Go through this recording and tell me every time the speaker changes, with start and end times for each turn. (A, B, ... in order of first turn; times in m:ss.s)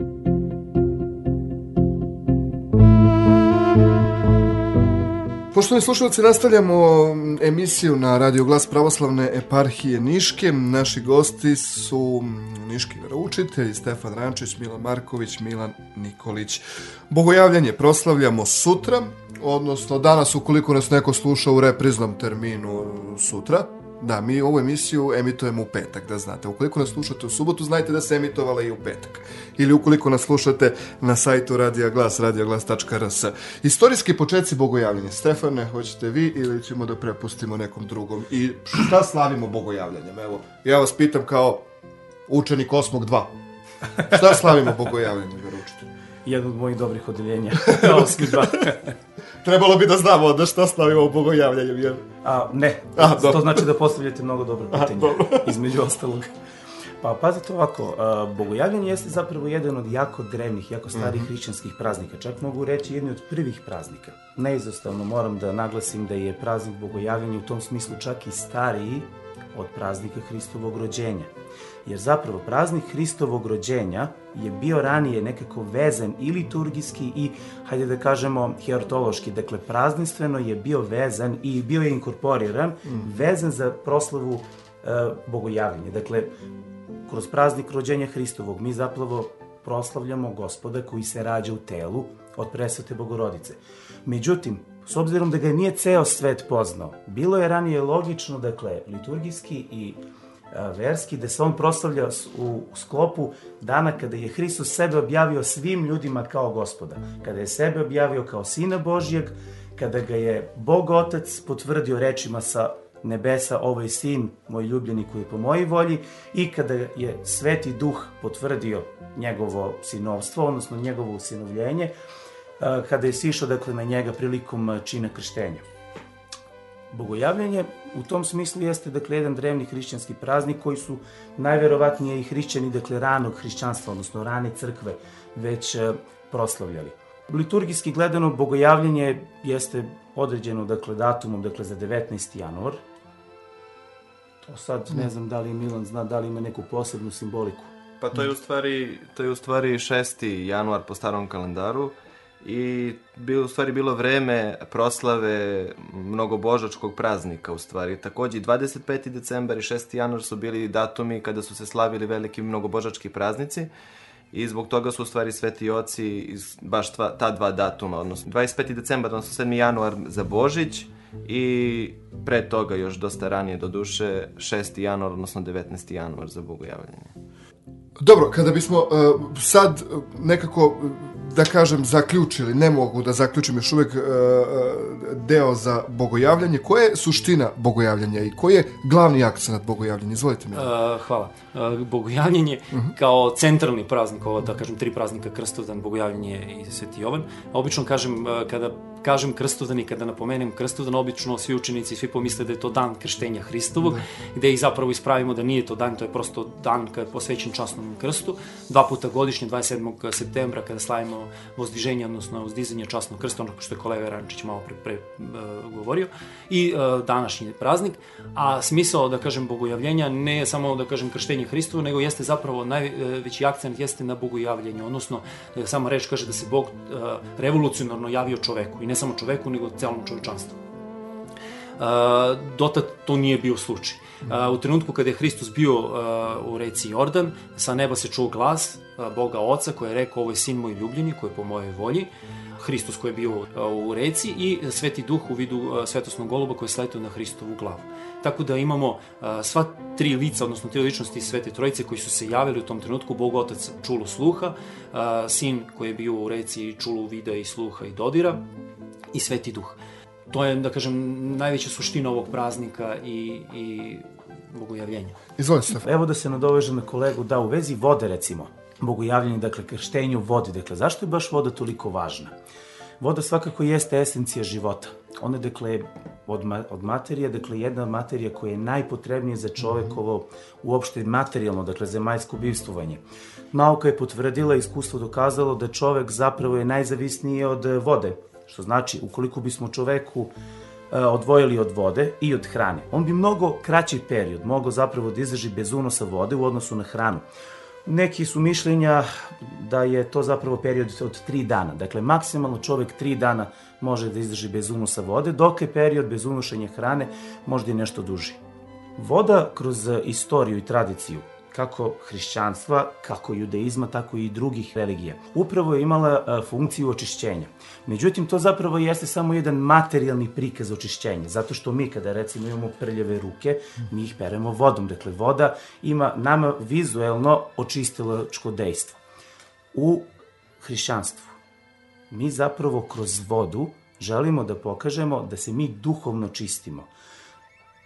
0:05.5-0:41.6 A
0:42.3-0:43.3 A
0:44.0-0:45.9 A
0:46.2-0:48.9 B
0:47.6-0:48.7 A
0:49.4-0:52.0 A
0:52.2-0:56.3 B
0:53.0-0:53.7 A
0:54.7-0:55.6 A
0:57.0-1:11.3 B
1:00.9-1:01.3 A
1:11.8-1:26.3 B
1:27.1-2:01.9 B
2:02.6-2:05.6 B
2:06.9-2:22.8 B
2:24.4-2:27.7 B
2:28.0-2:43.7 C
2:44.3-2:57.1 C
2:58.0-3:10.7 A
3:10.5-3:50.6 D
3:51.8-4:18.4 D
4:19.1-4:19.8 D
4:20.3-4:25.2 D
4:25.4-4:25.8 A
4:25.8-4:32.3 B
4:33.0-4:50.3 B
4:50.9-4:57.2 B
4:57.8-5:08.4 B
5:09.0-5:29.0 B
5:29.7-5:30.1 B
5:30.6-5:31.4 B
5:32.1-5:36.9 B